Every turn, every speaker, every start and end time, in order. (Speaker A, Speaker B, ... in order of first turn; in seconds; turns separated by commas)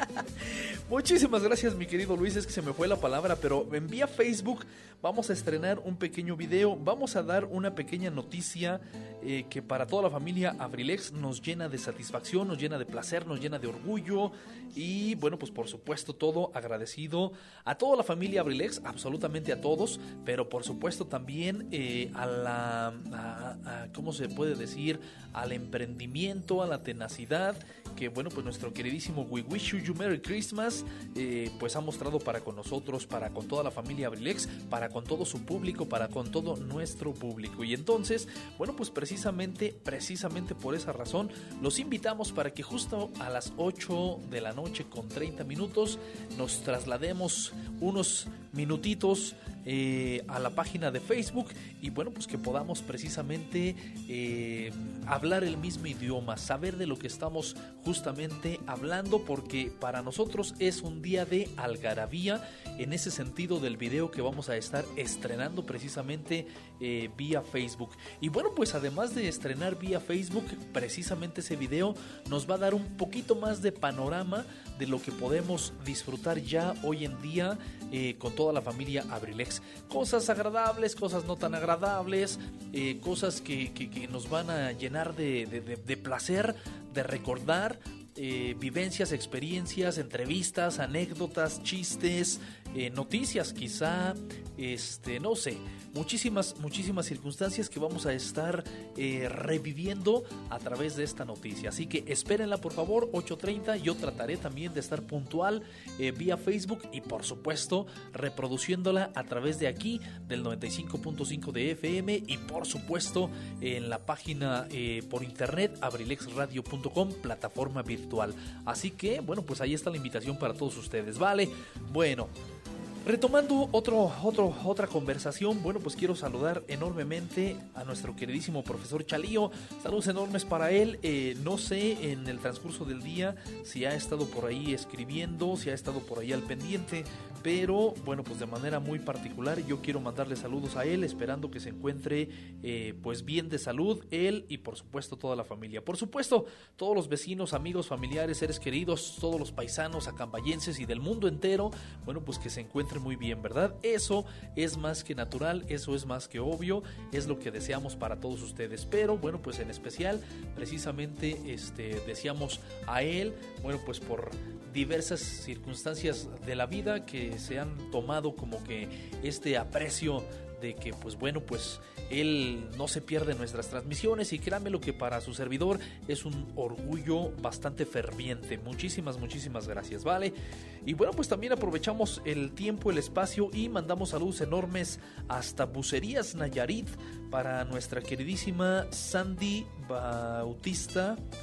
Speaker A: 0.4-122.3, Speaker A: 123.0-191.2